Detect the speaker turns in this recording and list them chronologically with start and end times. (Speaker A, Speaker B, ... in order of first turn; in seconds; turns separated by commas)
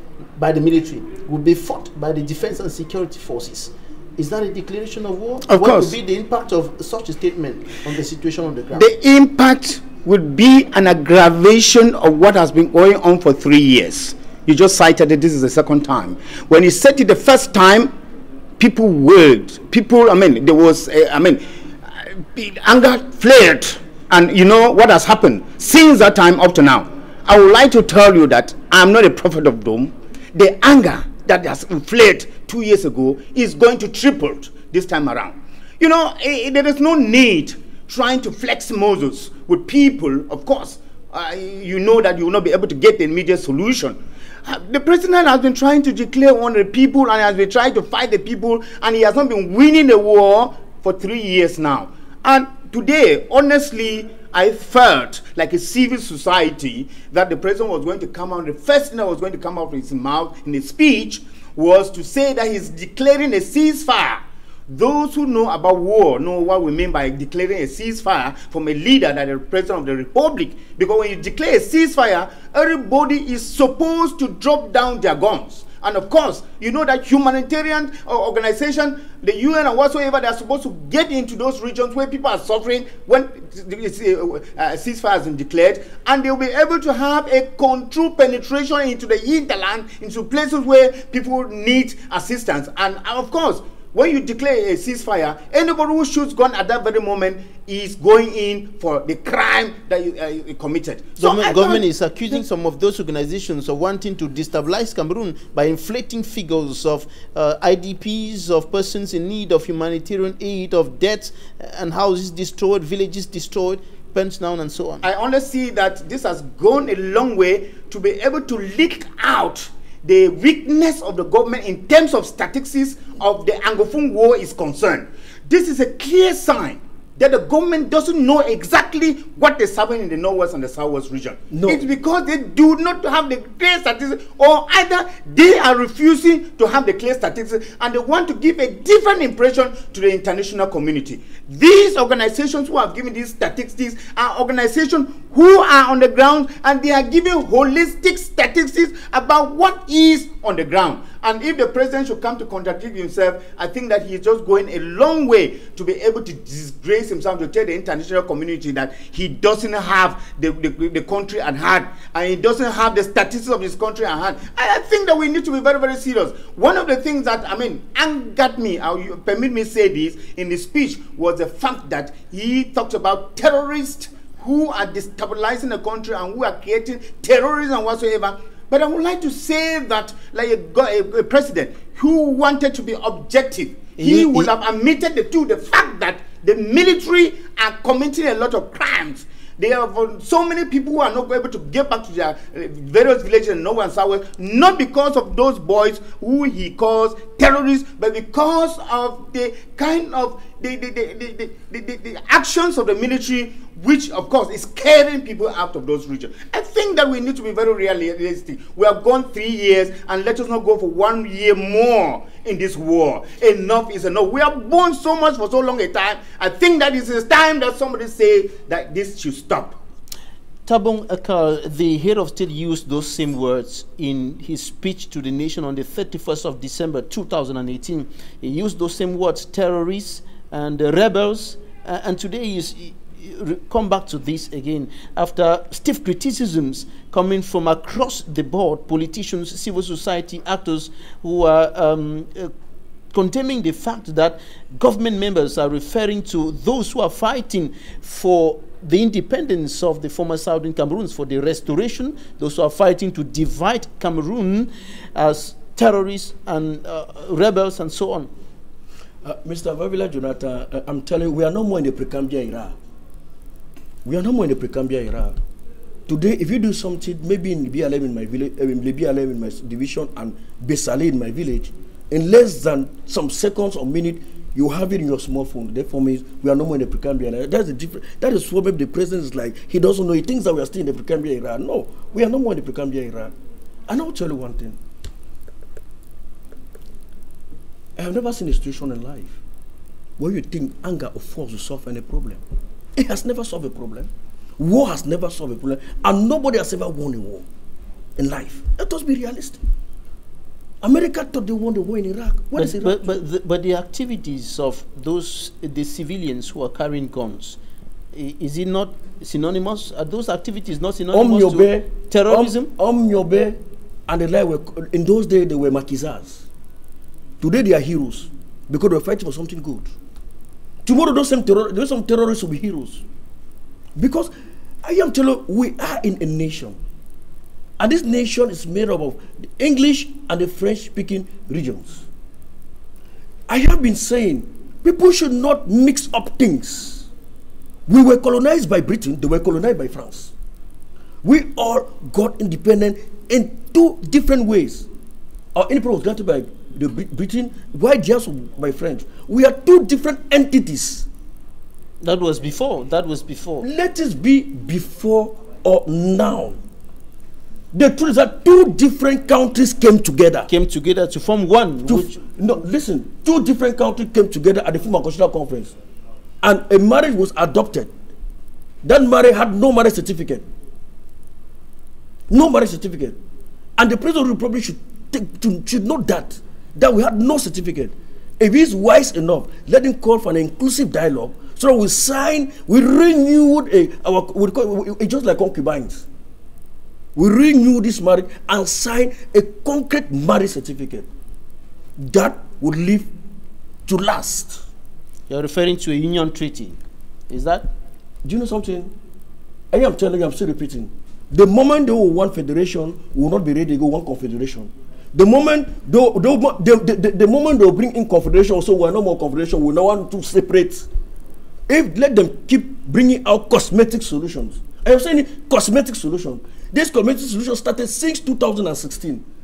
Speaker A: 0.4-8.9, Speaker B: 5.5-6.0, Speaker B: 8.7-17.9, Speaker B: 18.6-21.4, Speaker B: 22.0-101.8, Speaker A: 101.2-115.1, Speaker B: 115.0-219.8, Speaker C: 131.5-131.8, Speaker A: 184.0-184.5, Speaker A: 220.7-242.5, Speaker A: 243.1-258.3, Speaker C: 259.2-262.7, Speaker C: 264.0-265.4, Speaker C: 266.1-283.3, Speaker C: 283.9-284.8, Speaker C: 288.0-289.4, Speaker C: 290.2-292.4, Speaker C: 293.0-297.4, Speaker C: 298.2-299.6, Speaker C: 300.8-303.2, Speaker A: 302.6-307.6, Speaker A: 308.1-312.7, Speaker C: 311.1-313.6, Speaker C: 314.1-316.5, Speaker C: 317.4-319.9, Speaker C: 320.8-323.0, Speaker C: 324.0-324.3, Speaker C: 324.8-326.8, Speaker C: 327.8-332.1, Speaker C: 333.5-337.1, Speaker C: 337.9-340.3, Speaker C: 341.2-344.9, Speaker C: 345.5-351.1, Speaker A: 352.0-353.7, Speaker C: 353.6-356.6, Speaker C: 357.7-360.5, Speaker A: 360.5-362.2, Speaker C: 361.9-365.8, Speaker C: 366.4-367.9, Speaker C: 368.8-370.4, Speaker C: 372.3-373.2, Speaker C: 373.8-386.0, Speaker C: 387.2-391.1, Speaker C: 392.0-393.1, Speaker C: 393.9-394.6, Speaker A: 395.3-396.8, Speaker A: 397.3-397.7, Speaker C: 398.2-398.9, Speaker C: 399.7-410.9, Speaker C: 411.7-419.2